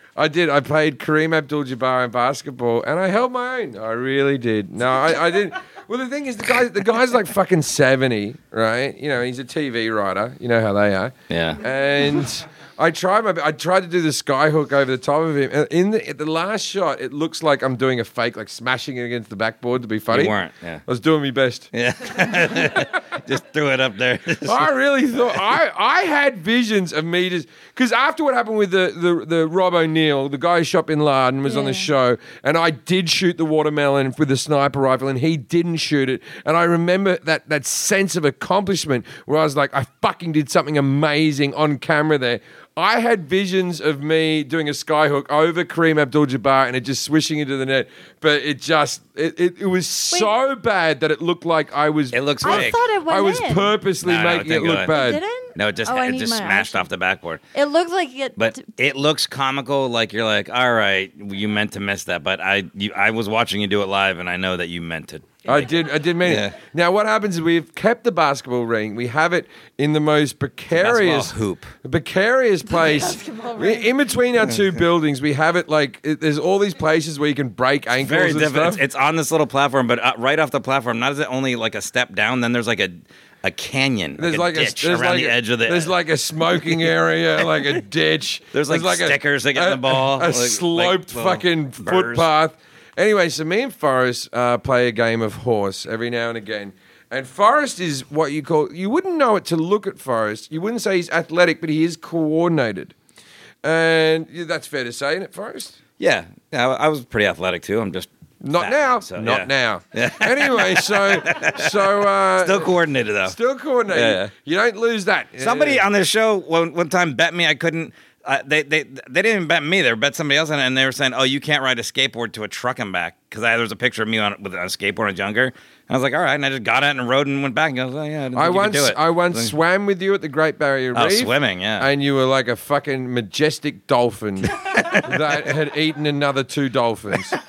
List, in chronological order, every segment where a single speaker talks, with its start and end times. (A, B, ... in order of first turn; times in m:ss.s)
0:00.2-0:20.4 A
0:11.3-0:11.6 B
0:20.1-0:20.8 B
0:20.9-0:22.8 A
0:21.7-0:24.7 B
0:24.4-0:55.2 A
0:31.4-0:31.9 C
0:52.1-0:52.8 B
0:52.4-0:53.7 C
0:54.0-0:54.9 B
0:54.9-0:56.9 C
0:55.6-0:57.4 B
0:57.5-0:58.6 C
0:58.4-1:06.5 B
1:05.5-1:18.8 A
1:10.8-1:11.7 B
1:12.7-1:13.9 C
1:18.0-1:25.9 B
1:24.2-1:43.0 A
1:26.5-1:26.8 B
1:28.5-1:32.3 B
1:43.6-1:45.8 A
1:46.0-1:53.4 B
1:48.4-1:55.8 A
1:53.9-1:54.3 B
1:55.4-2:09.5 B
2:08.4-2:17.4 A
2:10.9-2:11.9 B
2:14.7-2:15.1 B